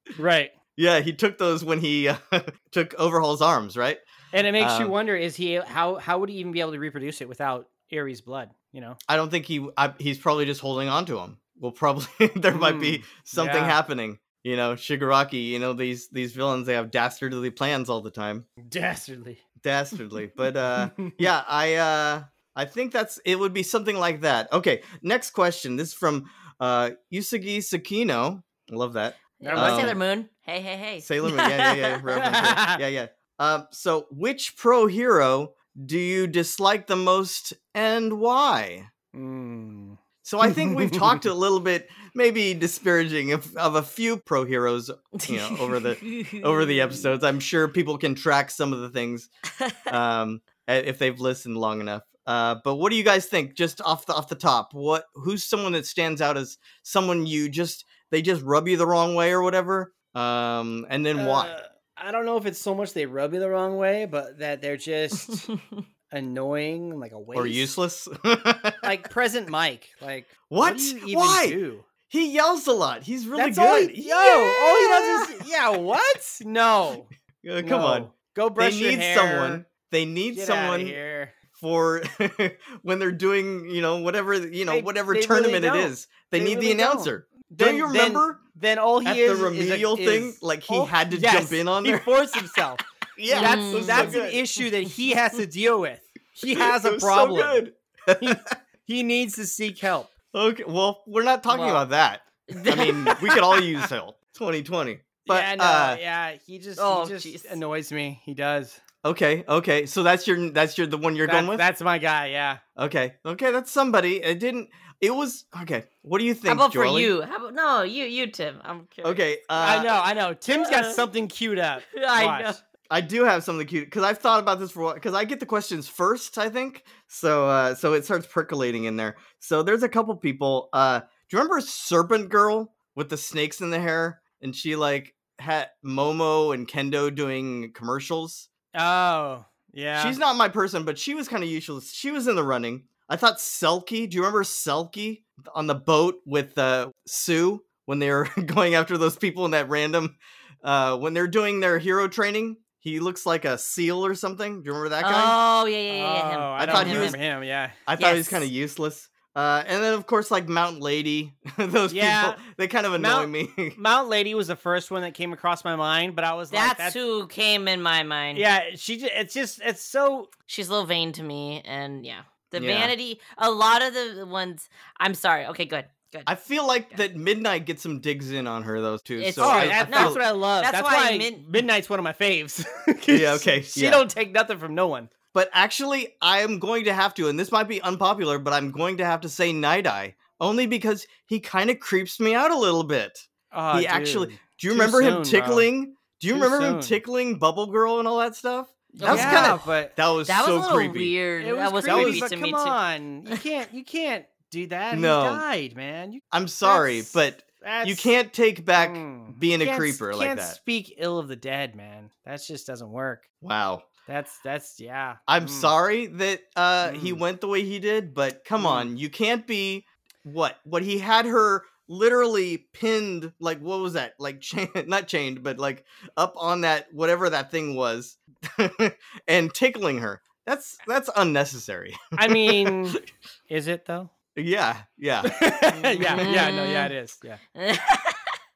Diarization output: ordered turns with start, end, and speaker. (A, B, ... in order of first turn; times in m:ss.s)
0:00.2-0:00.5 A
0:00.8-0:04.0 B
0:04.3-0:09.0 A
0:04.6-0:04.9 B
0:09.1-0:18.5 B
0:12.5-0:13.8 A
0:18.6-0:19.4 A
0:19.6-0:30.0 B
0:20.7-0:21.2 A
0:29.4-0:32.3 C
0:29.4-0:30.0 A
0:31.0-0:38.9 B
0:32.2-0:32.8 A
0:39.1-0:41.2 A
0:40.2-0:49.3 B
0:45.2-0:47.0 C
0:49.9-1:01.5 B
1:01.2-1:05.4 A
1:06.1-1:07.8 A
1:07.3-1:08.9 B
1:08.8-1:11.8 A
1:10.5-1:11.6 B
1:12.1-1:15.3 B
1:13.3-1:19.6 A
1:17.4-1:21.0 B
1:20.3-1:21.3 A
1:21.6-1:28.4 B
1:24.7-1:37.6 A
1:29.0-1:32.2 B
1:33.2-1:34.4 B
1:33.3-1:34.2 C
1:36.5-1:38.4 B
1:38.2-1:40.1 A
1:40.3-1:46.0 B
1:41.5-1:41.8 C
1:42.5-1:43.1 C
1:45.2-1:48.8 A
1:46.8-1:47.6 C
1:49.0-1:51.6 B
1:51.2-1:52.6 A
1:52.8-1:57.1 B
1:56.5-1:59.9 C
1:59.0-1:59.9 B
1:59.6-2:02.6 A
2:00.5-2:01.0 C
2:01.9-2:02.6 C
2:02.9-2:18.5 B
2:18.7-2:20.2 A
2:20.0-2:35.4 B
2:35.0-2:37.2 C
2:35.9-2:37.8 A
2:36.6-2:37.2 B
2:37.9-2:43.8 B
2:38.0-2:38.5 C
2:41.9-2:42.4 A
2:42.9-2:47.0 A
2:46.5-2:48.4 C
2:48.3-2:50.3 A
2:50.5-2:56.3 C
2:52.5-2:52.9 B
2:56.3-3:00.2 B
2:59.2-3:01.4 C
2:59.4-3:05.1 A
3:03.1-3:04.1 B
3:05.3-3:21.2 B
3:13.5-3:15.7 A
3:16.3-3:17.0 A
3:19.0-3:19.6 C
3:19.0-3:19.9 A
3:20.2-3:22.8 C
3:21.4-3:28.1 A
3:21.8-3:22.2 B
3:24.9-3:25.4 B
3:26.3-3:30.6 B
3:28.7-3:33.2 A
3:33.4-3:33.8 B
3:34.1-3:35.7 A
3:35.3-3:52.8 B
3:36.8-3:37.2 A
3:38.6-3:38.9 A
3:52.2-3:54.1 A
3:54.4-3:55.3 B
3:55.2-3:57.4 A
3:55.7-3:56.9 C
3:56.0-3:56.4 B
3:57.5-3:58.3 C